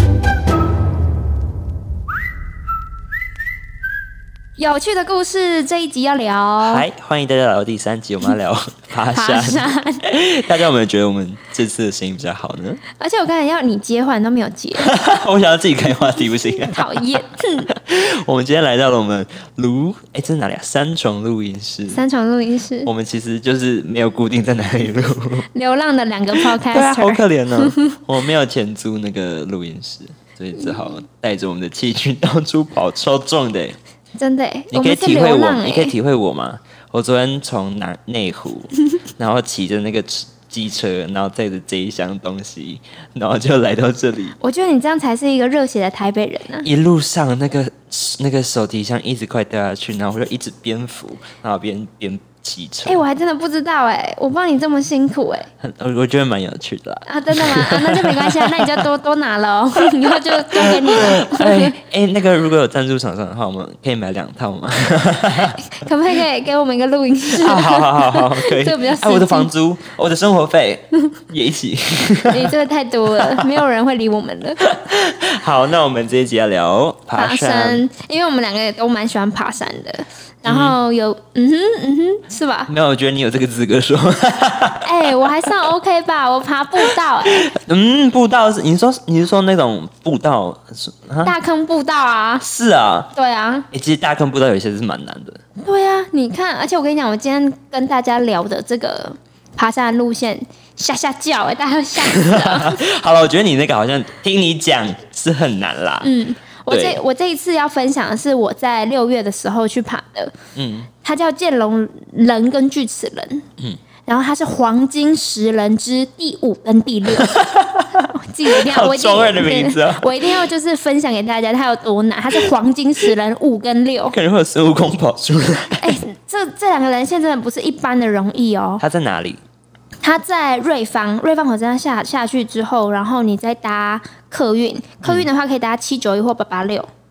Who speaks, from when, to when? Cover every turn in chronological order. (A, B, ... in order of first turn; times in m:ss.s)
0:04.6-0:06.8 A
0:06.6-0:12.8 B
0:09.1-0:10.0 A
0:13.0-0:14.9 A
0:14.8-0:22.0 B
0:16.5-0:17.7 A
0:21.9-0:22.9 A
0:22.8-0:25.5 B
0:25.5-0:28.0 A
0:26.3-0:33.8 B
0:34.2-0:35.9 A
0:34.7-0:44.4 B
0:44.4-0:46.7 A
0:46.6-0:53.0 B
0:52.8-0:55.5 A
0:55.6-0:58.9 B
0:57.1-1:01.8 A
1:00.0-1:05.6 B
1:05.6-1:09.5 A
1:07.3-1:12.6 B
1:12.3-1:14.7 A
1:13.1-1:13.6 B
1:14.6-1:17.8 B
1:17.2-1:22.7 A
1:20.4-1:20.8 B
1:22.7-1:25.5 B
1:24.8-1:27.5 A
1:27.2-1:31.3 B
1:31.2-1:32.4 A
1:32.4-1:33.1 B
1:33.2-1:33.7 A
1:33.7-1:35.4 B
1:35.6-1:42.8 A
1:42.1-1:46.1 B
1:46.0-1:50.4 A
1:46.7-1:47.0 B
1:50.6-1:50.9 B
1:51.0-1:53.5 A
1:54.1-2:04.2 A
1:57.1-2:00.4 B
2:04.1-2:06.0 B
2:05.8-2:08.8 A
2:08.8-2:09.4 B
2:10.0-2:16.9 A